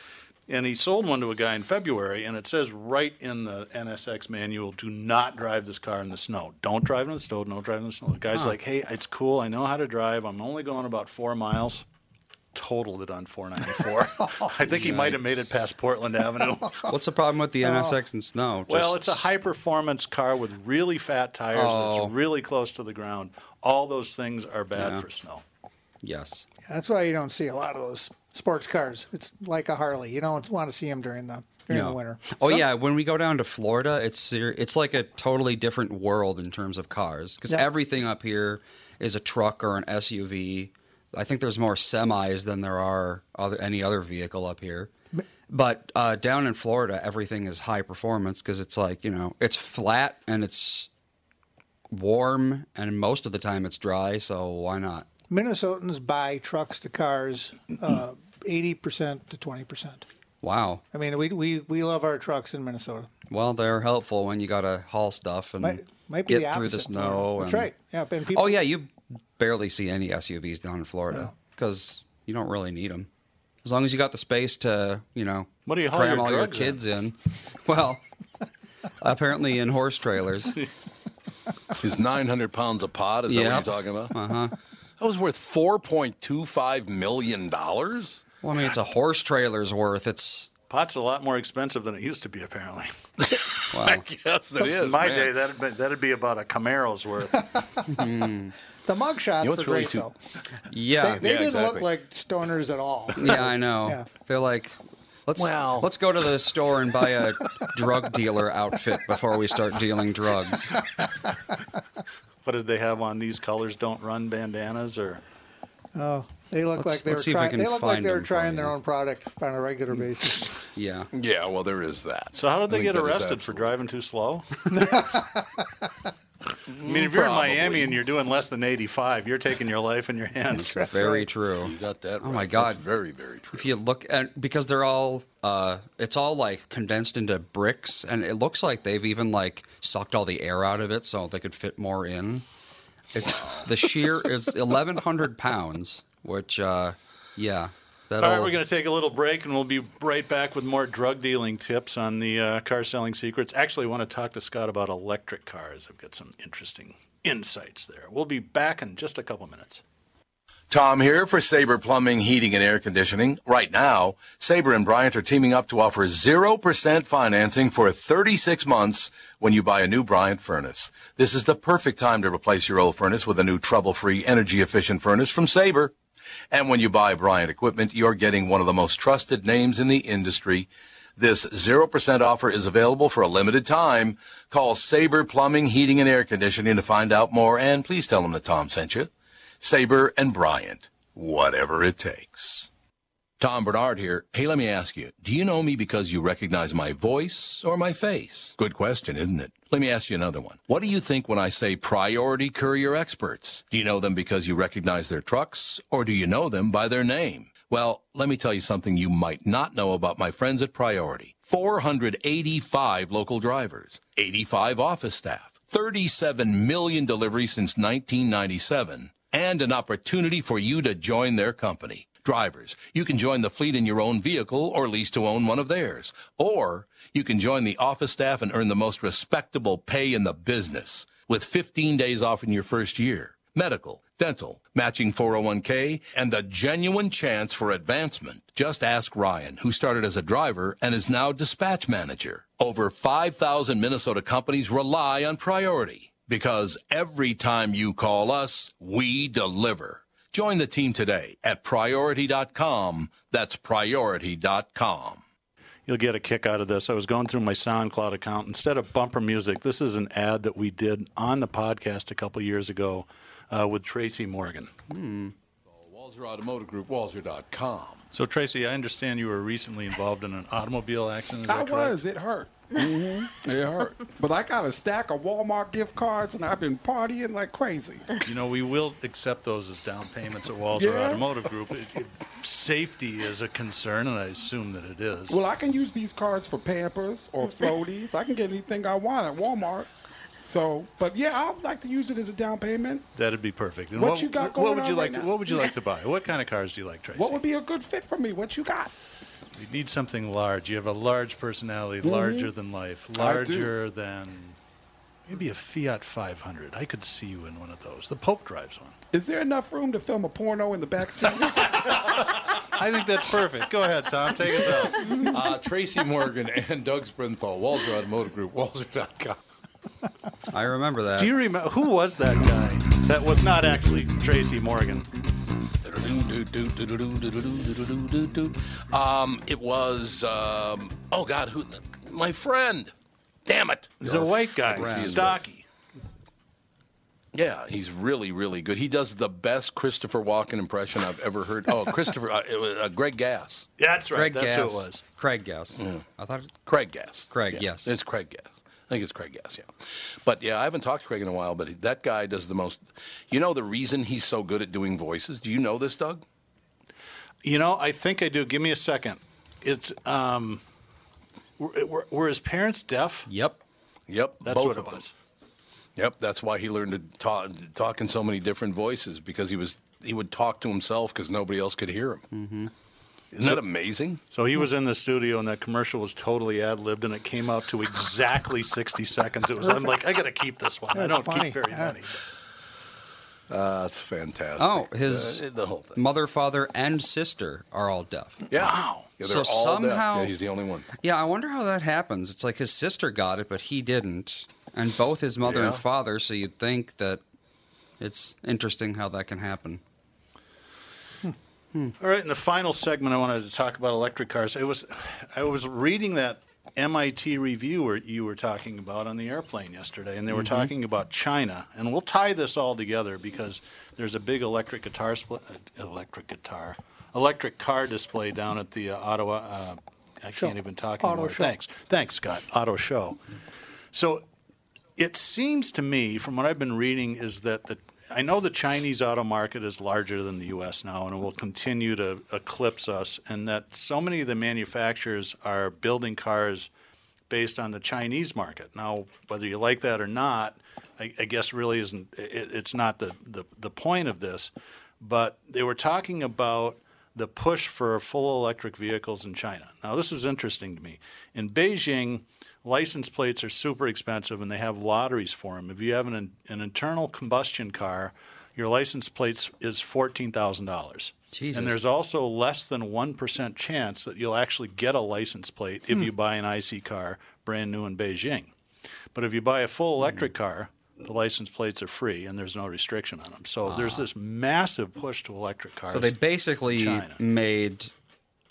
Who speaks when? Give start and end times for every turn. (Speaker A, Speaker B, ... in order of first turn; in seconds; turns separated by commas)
Speaker A: 0.5-11.8, Speaker A: 12.5-16.8, Speaker B: 14.7-15.6, Speaker B: 16.9-19.2, Speaker C: 17.6-18.0, Speaker A: 18.7-25.4, Speaker B: 21.5-22.1, Speaker B: 24.8-25.0, Speaker B: 26.0-26.5, Speaker C: 26.6-32.7, Speaker B: 31.7-44.9, Speaker B: 45.5-50.9, Speaker B: 51.9-55.1, Speaker C: 55.3-60.0, Speaker B: 60.4-60.8, Speaker C: 60.9-63.1, Speaker B: 63.3-67.7, Speaker C: 65.6-68.6, Speaker B: 68.3-73.1, Speaker B: 73.6-78.0, Speaker A: 75.7-76.8, Speaker B: 79.0-80.5, Speaker D: 81.8-84.1, Speaker B: 83.3-84.5, Speaker D: 85.0-88.2, Speaker B: 88.4-90.5, Speaker A: 90.7-92.9, Speaker D: 93.2-95.3, Speaker B: 93.7-94.0, Speaker A: 94.6-97.5, Speaker B: 97.9-98.5, Speaker C: 98.8-100.3, Speaker D: 99.4-100.1, Speaker B: 100.7-101.2, Speaker C: 101.0-104.0, Speaker D: 101.2-101.9, Speaker B: 103.2-110.9, Speaker D: 105.4-105.9, Speaker A: 112.4-115.2, Speaker C: 115.9-120.5, Speaker B: 116.8-118.7, Speaker B: 120.7-121.1, Speaker D: 121.1-123.7, Speaker A: 122.3-124.6, Speaker C: 124.7-125.9, Speaker D: 126.7-128.0, Speaker A: 126.8-130.9, Speaker C: 130.6-131.3, Speaker B: 130.6-132.8, Speaker D: 131.6-133.8, Speaker B: 133.5-142.4, Speaker B: 143.2-148.6, Speaker A: 143.2-143.7, Speaker A: 148.2-159.8, Speaker D: 160.7-175.9, Speaker D: 176.5-189.1, Speaker D: 189.6-192.7, Speaker D: 193.4-255.2, Speaker A: 255.9-264.7, Speaker B: 264.9-265.3, Speaker D: 265.7-268.1, Speaker A: 268.1-272.0, Speaker E: 271.5-278.2, Speaker A: 278.2-285.4, Speaker E: 280.7-281.5, Speaker E: 285.3-289.9, Speaker E: 290.4-293.1, Speaker A: 293.1-297.4, Speaker E: 293.9-295.8, Speaker E: 297.1-298.9, Speaker A: 299.6-304.6, Speaker E: 302.0-302.5, Speaker E: 303.1-303.8, Speaker A: 305.3-308.9, Speaker E: 309.1-312.4, Speaker A: 311.6-315.2, Speaker D: 315.2-319.4, Speaker B: 320.5-321.3, Speaker A: 321.2-325.1, Speaker D: 325.8-332.9, Speaker D: 333.4-335.5, Speaker A: 334.0-335.6, Speaker B: 334.8-335.1, Speaker D: 337.3-343.7, Speaker A: 343.8-345.0, Speaker B: 344.1-346.5, Speaker D: 345.8-346.0, Speaker D: 346.6-349.7, Speaker B: 347.3-347.9, Speaker D: 350.2-356.2, Speaker A: 357.4-360.6, Speaker A: 361.6-363.3, Speaker B: 363.3-363.6, Speaker D: 364.1-365.1, Speaker A: 364.4-365.1, Speaker D: 365.9-372.3, Speaker B: 372.3-372.7, Speaker D: 373.3-374.2, Speaker A: 374.3-382.2, Speaker C: 379.6-380.0, Speaker C: 380.9-382.0, Speaker D: 383.5-386.0, Speaker B: 384.6-385.4, Speaker B: 385.9-388.5, Speaker D: 388.5-390.9, Speaker A: 388.6-389.1, Speaker B: 389.2-390.4, Speaker B: 391.0-397.2, Speaker D: 395.4-395.8, Speaker B: 398.0-399.8, Speaker A: 402.0-423.2, Speaker B: 410.3-410.7, Speaker C: 420.3-421.6, Speaker A: 423.9-424.2, Speaker A: 425.0-436.7, Speaker A: 437.3-468.5, Speaker B: 461.3-461.8, Speaker A: 469.1-477.2, Speaker B: 473.7-474.1, Speaker B: 475.9-477.9